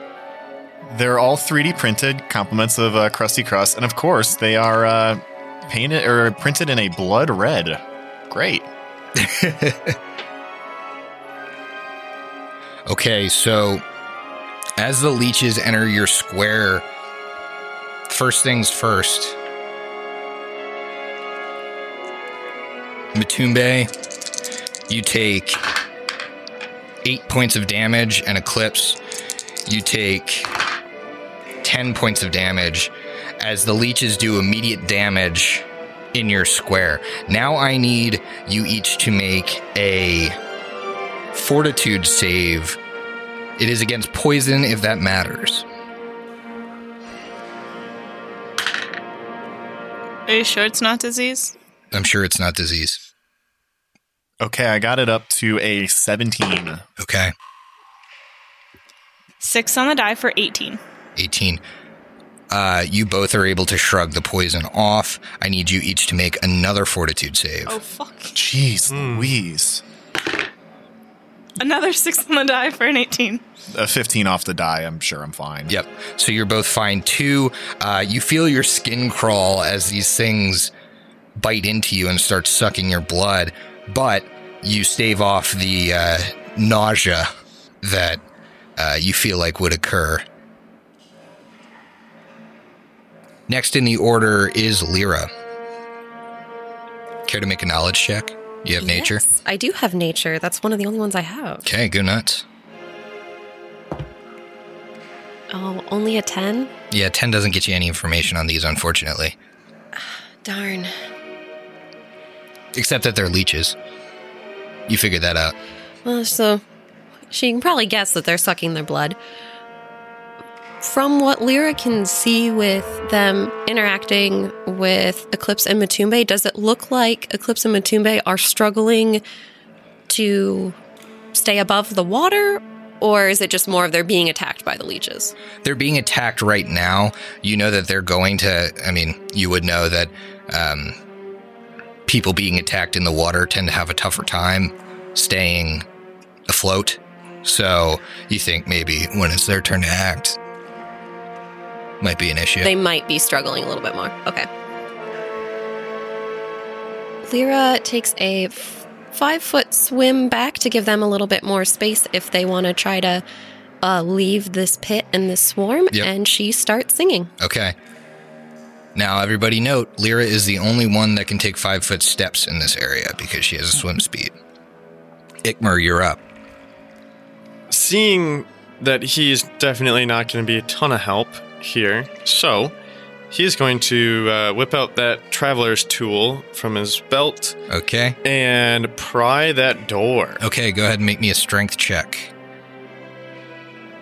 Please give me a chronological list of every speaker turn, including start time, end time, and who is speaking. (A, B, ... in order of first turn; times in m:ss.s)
0:00.9-0:08.7 A
0:09.2-0:10.0 B
0:12.9-0:13.8 B
0:14.8-0:16.8 B
0:18.1-0:19.4 B
0:23.2-0:23.9 B
0:24.9-0:25.6 B
0:27.0-0:29.0 B
0:29.7-0:30.5 B
0:31.6-0:40.4 B
0:41.3-0:42.8 B
0:43.6-0:45.6 B
0:50.3-0:51.5 C
0:51.9-0:53.0 B
0:54.4-0:56.8 A
0:57.0-0:57.3 B
0:59.4-1:00.8 C
1:01.2-1:01.6 B
1:02.5-1:07.8 B
1:07.7-1:08.4 C
1:08.4-1:09.8 A
1:08.9-1:09.4 D
1:11.6-1:13.4 C
1:13.7-1:15.7 A
1:15.7-1:20.7 B
1:21.4-1:27.3 B
1:27.8-1:28.2 B
1:28.8-1:30.2 B
1:33.5-1:35.3 B
1:37.3-1:39.2 B
1:38.8-1:41.6 E
1:41.6-1:42.4 B
1:45.5-1:46.7 E
1:46.9-1:49.4 B
1:50.0-1:50.9 E
1:52.7-1:53.8 B
1:54.9-1:55.6 B
1:56.0-1:56.6 E
1:57.3-1:59.2 E
2:00.8-2:09.2 E
2:10.1-2:10.8 E
2:11.3-2:15.3 E
2:15.6-2:21.0 B
2:22.1-2:25.9 B
2:26.5-2:30.4 B
2:32.0-2:32.7 B
2:32.6-2:34.5 E
2:37.2-2:43.2 E
2:43.8-2:47.3 E
2:47.4-2:47.8 B
2:49.0-2:54.4 B
2:55.4-2:56.2 B
2:57.7-3:02.7 D
3:03.3-3:07.6 D
3:07.7-3:08.2 B
3:08.2-3:10.4 D
3:10.4-3:12.3 B